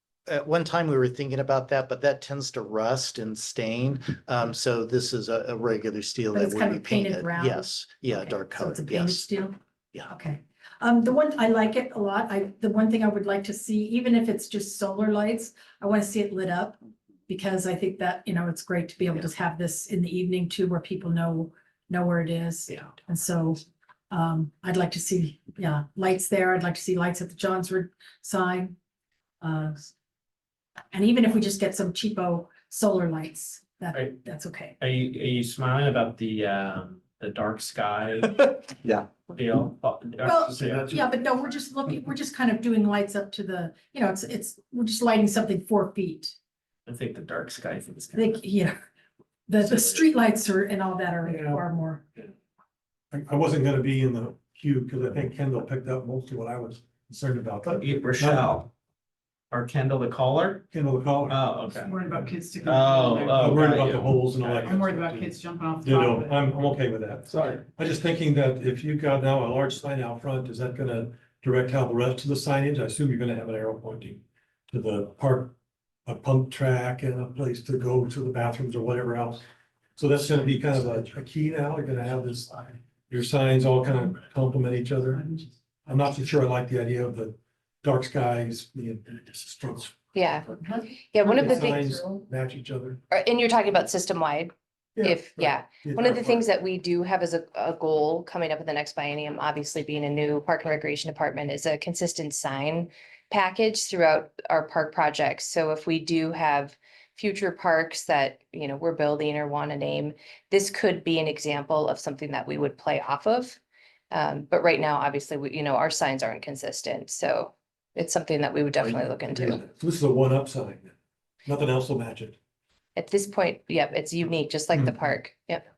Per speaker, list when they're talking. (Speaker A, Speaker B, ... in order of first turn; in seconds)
Speaker A: 0.3-9.3
Speaker B: 6.3-9.5, 10.1-28.7, 29.4-29.9, 30.9-34.8, 40.2-46.3, 48.1-48.8, 49.5-52.0
Speaker C: 34.8-41.1, 46.9-48.4, 57.6-58.7, 59.5-60.7, 61.2-61.9, 62.6-64.7, 67.3-67.6
Speaker D: 51.2-51.6, 53.1-58.5, 60.7-61.4, 63.4-75.5, 76.0-79.4, 80.0-90.0, 91.2-93.0, 95.0-96.5, 118.8-122.4
Speaker E: 61.8-63.6, 64.6-66.4
Speaker F: 90.1-92.0, 93.1-113.6, 114.1-119.6, 123.0-125.6